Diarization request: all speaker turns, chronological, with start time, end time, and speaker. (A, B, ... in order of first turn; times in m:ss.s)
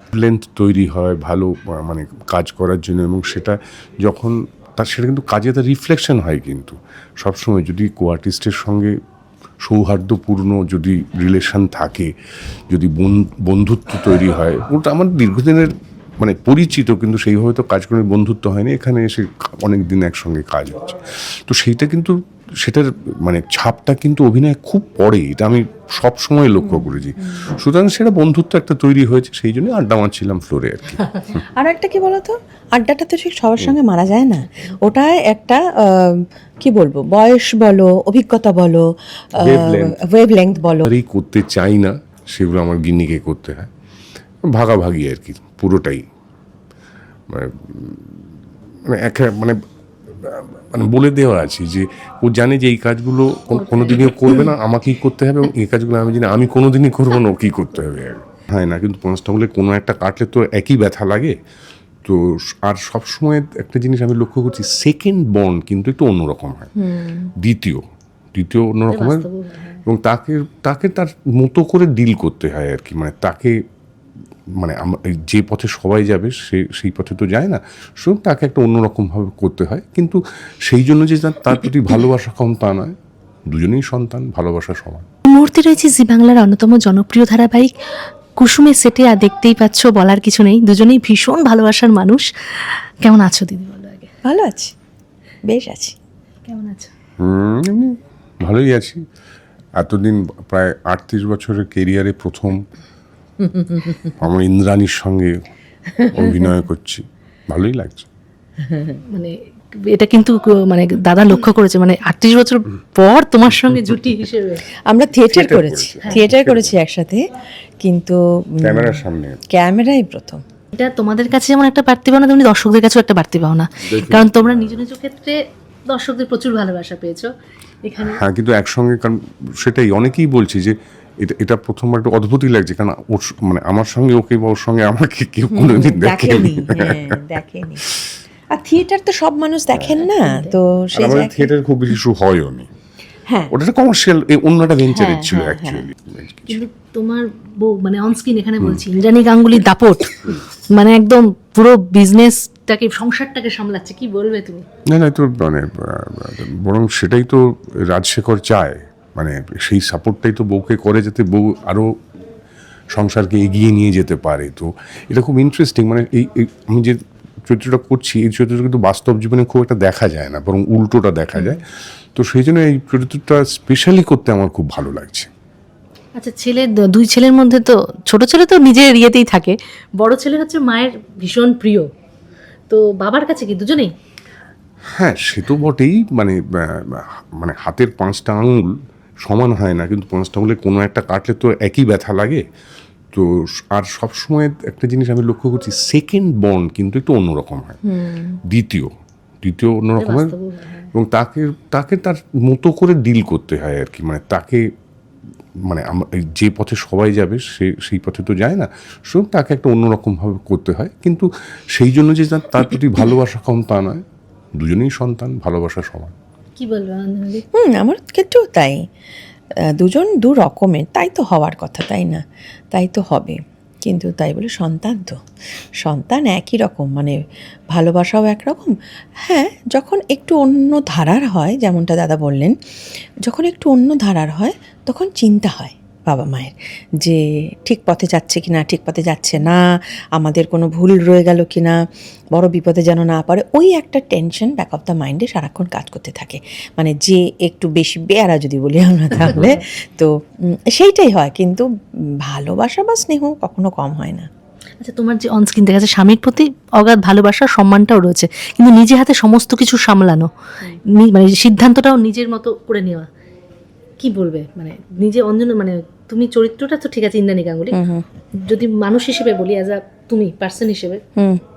0:00.1-0:09.0 A
0:09.6-0:12.1 A
0:12.7-0:31.2 A
0:26.6-0:27.5 B
0:31.6-0:38.9 B
0:39.4-0:40.0 A
0:39.4-0:40.9 B
0:40.9-0:43.7 A
0:44.5-0:46.0 A
0:47.3-0:48.1 A
0:48.9-0:49.6 A
0:50.2-1:01.4 A
0:53.5-0:54.5 C
1:02.0-1:06.7 A
1:06.8-1:07.3 B
1:07.4-1:07.8 A
1:08.3-1:09.3 A
1:08.9-1:09.8 C
1:09.9-1:13.6 A
1:14.6-1:23.0 A
1:23.5-1:25.0 A
1:25.3-1:27.7 C
1:28.4-1:34.1 C
1:34.3-1:34.7 B
1:35.5-1:36.0 B
1:36.5-1:36.9 C
1:37.2-1:39.0 A
1:39.8-1:42.6 A
1:43.4-1:44.2 B
1:44.2-1:45.4 A
1:45.9-1:46.5 B
1:46.1-1:48.1 A
1:48.6-1:49.0 B
1:49.9-1:54.6 C
1:54.9-1:57.2 B
1:55.3-1:56.7 A
1:57.8-2:00.4 B
1:58.6-1:59.4 A
2:00.7-2:05.4 C
2:03.8-2:04.8 A
2:05.9-2:07.3 C
2:07.8-2:08.2 C
2:08.0-2:17.0 A
2:15.5-2:17.9 B
2:18.5-2:21.5 B
2:19.7-2:20.0 A
2:20.1-2:20.6 C
2:21.0-2:22.7 A
2:23.5-2:26.6 A
2:24.9-2:25.8 B
2:26.5-2:34.6 C
2:34.9-2:41.9 A
2:42.9-2:51.6 A
2:51.4-2:51.6 C
2:52.2-2:55.3 A
2:56.2-3:01.9 C
3:02.7-3:03.9 C
3:05.0-3:12.4 A
3:13.1-3:17.8 A
3:17.9-3:18.2 B
3:18.5-3:18.9 A
3:19.4-3:20.3 A
3:20.0-3:20.9 C
3:20.9-3:24.6 A
3:25.7-3:34.0 A
3:34.6-3:36.1 A
3:36.6-3:37.4 C
3:37.5-3:38.8 B
3:39.6-3:42.2 B
3:42.7-3:45.2 B
3:45.8-3:47.2 B
3:47.7-3:48.7 B
3:49.2-3:52.6 B
3:53.2-3:59.6 B
4:00.2-4:01.8 B
4:02.4-4:11.7 B
4:09.2-4:09.6 C
4:12.2-4:14.3 B
4:14.8-4:20.3 C
4:20.9-4:23.1 C
4:24.0-4:27.8 C
4:27.7-4:28.0 B
4:28.4-4:31.0 C